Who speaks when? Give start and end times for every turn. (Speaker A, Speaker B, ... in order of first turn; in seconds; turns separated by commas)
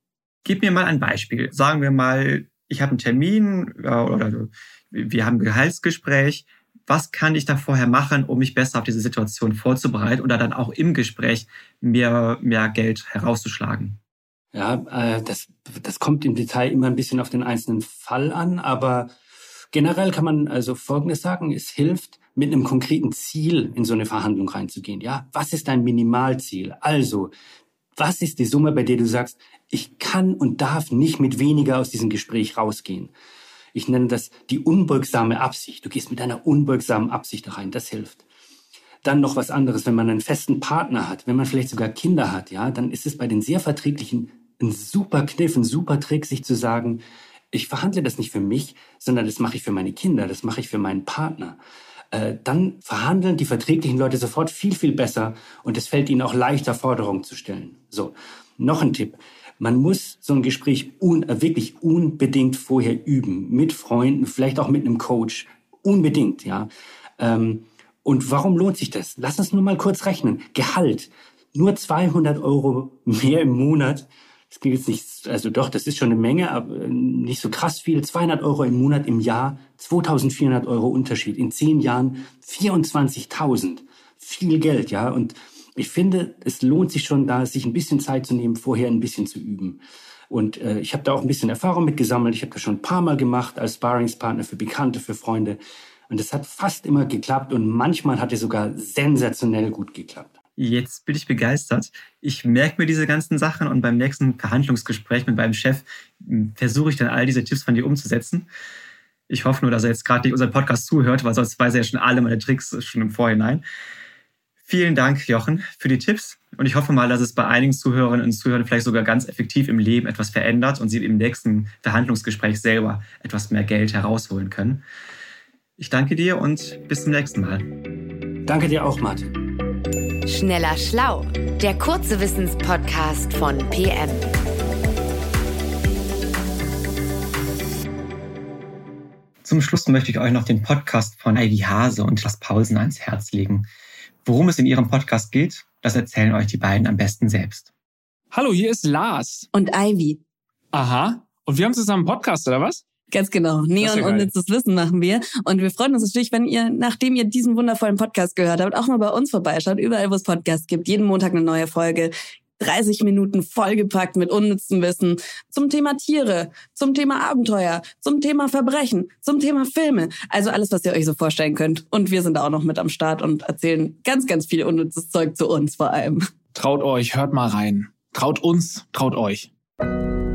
Speaker A: 0.5-14.0, Speaker B: 14.5-19.1, Speaker B: 19.7-27.3, Speaker B: 28.0-33.1, Speaker B: 33.7-38.2, Speaker B: 39.0-51.6, Speaker B: 52.1-100.3, Speaker A: 100.6-108.5, Speaker A: 109.3-113.7, Speaker A: 114.7-124.8, Speaker A: 125.8-127.7, Speaker B: 128.5-129.4, Speaker C: 130.2-134.3, Speaker A: 139.4-143.7, Speaker A: 144.2-147.7, Speaker D: 148.3-149.5, Speaker E: 149.5-150.2, Speaker D: 150.7-152.8, Speaker E: 153.1-176.2, Speaker D: 153.8-154.3, Speaker D: 176.5-179.5